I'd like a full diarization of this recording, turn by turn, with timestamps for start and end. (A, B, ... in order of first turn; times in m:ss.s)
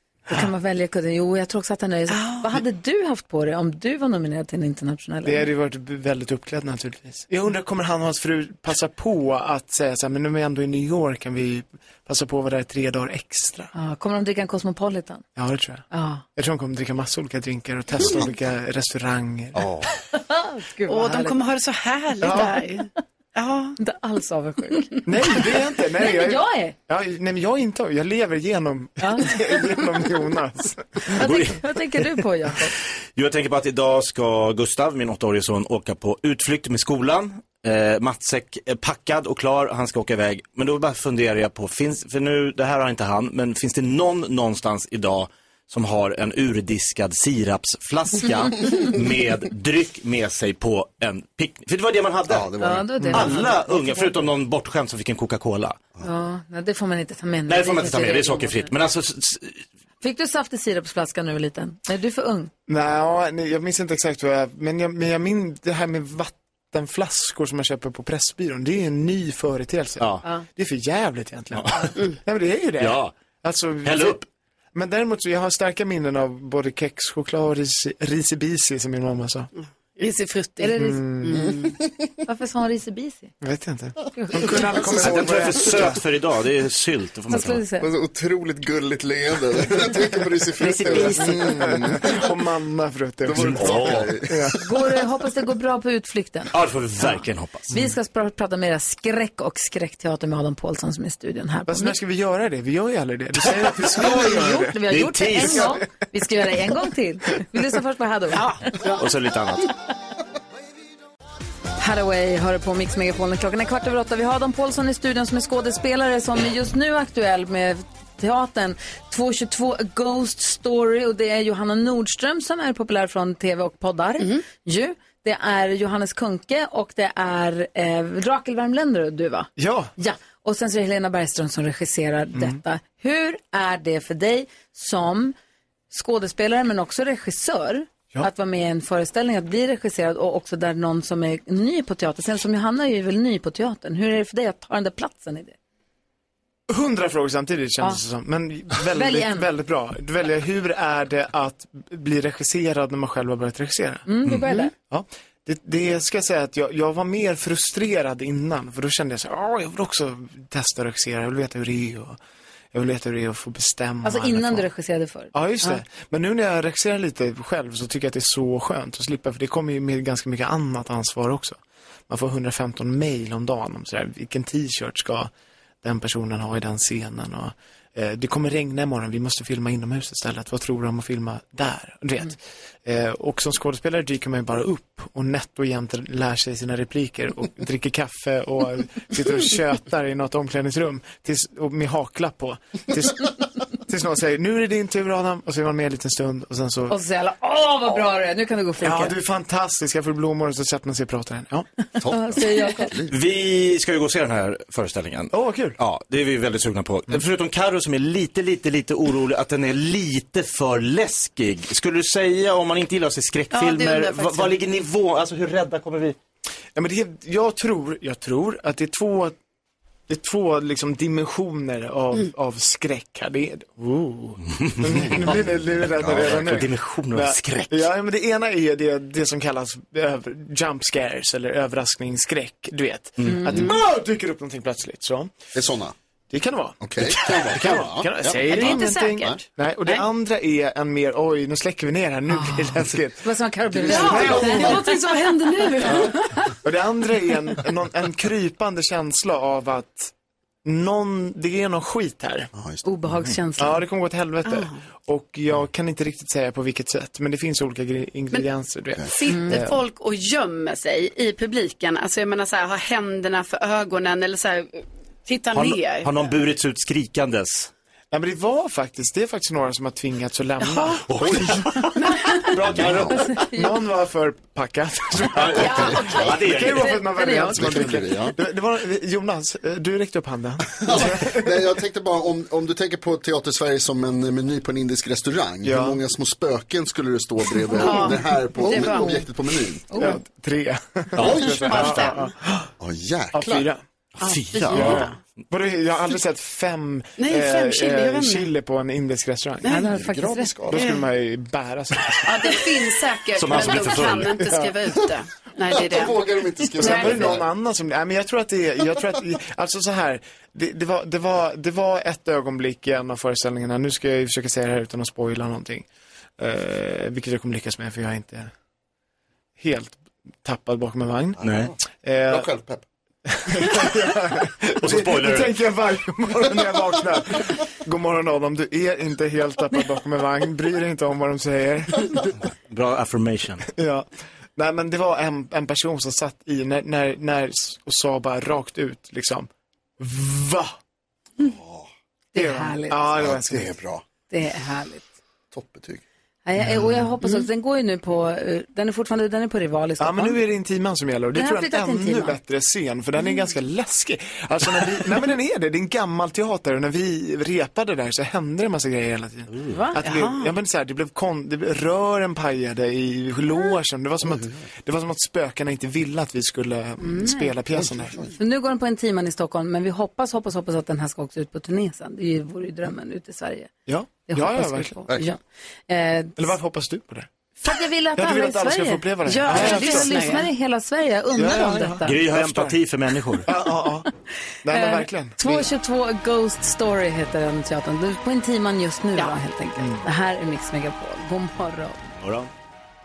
0:00.3-0:05.5 A
0:02.1-0:02.4 B
0:05.2-0:13.7 C
0:13.7-0:15.2 A
0:15.4-0:19.6 C
0:15.9-0:16.2 A
0:19.6-0:19.9 D
0:20.1-0:21.3 A
0:20.9-0:23.8 B
0:22.2-0:22.6 C
0:23.8-0:25.1 A
0:25.0-0:31.0 C
0:26.0-0:26.8 A
0:29.0-0:29.4 A
0:31.1-0:31.6 E
0:31.1-0:32.7 A
0:33.1-0:52.5 E
0:52.3-0:52.9 D
0:52.6-0:54.1 A
0:53.1-0:55.8 E
0:56.0-0:58.7 A
0:57.5-0:59.6 E
1:00.0-1:02.5 A
1:02.7-1:14.2 C
1:11.5-1:11.9 E
1:12.8-1:13.1 E
1:13.8-1:14.2 E
1:14.7-1:19.5 C
1:20.0-1:21.6 B
1:20.6-1:21.6 A
1:20.8-1:21.5 C
1:22.2-1:23.3 A
1:23.4-1:26.0 C
1:24.1-1:24.7 A
1:24.8-1:27.6 E
1:24.8-1:25.9 D
1:27.3-1:27.9 A
1:27.8-1:32.2 D
1:30.6-1:31.4 A
1:30.7-1:31.4 E
1:31.0-1:34.6 C
1:33.2-1:34.6 D
1:33.4-1:34.1 E
1:34.6-1:41.9 A
1:36.5-1:37.7 E
1:41.7-1:45.8 C
1:43.6-1:48.8 A
1:44.0-1:45.8 E
1:48.4-1:49.0 B
1:48.9-1:49.7 E
1:51.8-2:15.3 A
2:09.6-2:09.9 C
2:12.3-2:12.6 C
2:15.9-2:25.6 A
2:26.7-2:34.1 C
2:28.9-2:29.5 A
2:34.1-2:34.7 A
2:34.8-2:42.2 C
2:42.7-2:44.7 C
2:44.0-2:45.8 A
2:45.3-2:55.3 C
2:55.8-3:17.0 C
3:16.9-3:19.1 A
3:18.8-3:21.7 C
3:22.0-3:23.1 D
3:22.0-3:23.0 A
3:23.1-3:36.2 E
3:25.3-3:25.8 C
3:33.5-3:34.5 B
3:36.7-3:39.4 C
3:40.1-3:55.3 C
3:44.7-3:47.9 E
3:44.9-3:45.4 D
3:46.0-3:46.6 D
3:53.2-3:53.6 E
3:53.3-3:53.7 A
3:55.5-3:55.9 D
3:56.3-4:04.8 C
3:56.8-3:59.4 D
3:58.5-4:00.0 B
4:02.3-4:06.0 A
4:03.9-4:06.3 B
4:05.9-4:10.1 C
4:10.6-4:12.5 C
4:12.6-4:12.8 D
4:12.8-4:13.8 A
4:13.6-4:19.8 C
4:19.0-4:26.1 B
4:19.3-4:19.5 A
4:25.5-4:27.7 E
4:28.1-4:31.6 C
4:30.6-4:31.0 B
4:31.1-4:31.9 E
4:32.0-4:32.5 B
4:32.5-4:41.6 C
4:32.7-4:33.2 D
4:32.7-4:33.1 E
4:33.1-4:33.7 A
4:35.3-4:37.0 E
4:35.6-4:36.3 B
4:36.1-4:36.4 D
4:36.9-4:37.7 A
4:37.5-4:38.4 D
4:40.8-4:49.8 D
4:45.6-4:46.0 C
4:47.8-4:49.3 A
4:47.8-4:49.1 B
4:49.9-4:50.2 A
4:50.0-4:52.7 C
4:51.2-4:51.5 E
4:51.2-4:52.0 D
4:51.3-4:52.2 B
4:52.8-4:53.7 D
4:53.3-4:53.8 C
4:54.2-4:55.1 E
4:54.6-4:55.1 B
4:54.7-5:02.7 C
4:57.2-4:58.5 B
4:59.7-5:00.5 A
4:59.8-5:00.8 D
5:00.7-5:01.0 B
5:02.2-5:06.2 B
5:03.4-5:04.3 E
5:03.5-5:05.0 C
5:05.7-5:07.4 D
5:06.8-5:15.8 C
5:06.8-5:07.4 B
5:16.4-5:18.5 C
5:19.6-5:21.4 C
5:21.4-5:21.7 D
5:21.4-5:21.7 E
5:22.0-5:22.5 C
5:22.3-5:22.8 D
5:23.3-5:32.2 C
5:24.8-5:25.6 E
5:32.7-5:33.6 E
5:33.7-5:40.8 C
5:41.4-5:41.9 D
5:42.3-5:43.2 A
5:42.3-5:43.7 C
5:43.1-5:44.0 D
5:44.3-5:45.1 A
5:45.5-5:46.0 D
5:46.4-5:50.4 A
5:46.6-5:47.0 C
5:50.0-6:08.2 C
5:51.3-5:52.4 A
5:59.7-6:00.0 A
6:00.0-6:00.5 B
6:07.1-6:07.5 A
6:07.8-6:08.3 D
6:08.4-6:13.7 A
6:13.8-6:15.0 C
6:14.3-6:16.5 A
6:16.4-6:17.3 C
6:17.6-6:22.2 A
6:18.2-6:20.4 C
6:19.2-6:20.4 B
6:21.3-6:22.8 C
6:22.0-6:23.5 E
6:23.4-6:24.1 C
6:24.6-6:25.7 C
6:24.7-6:32.0 A
6:29.8-6:30.0 C
6:32.2-6:32.5 E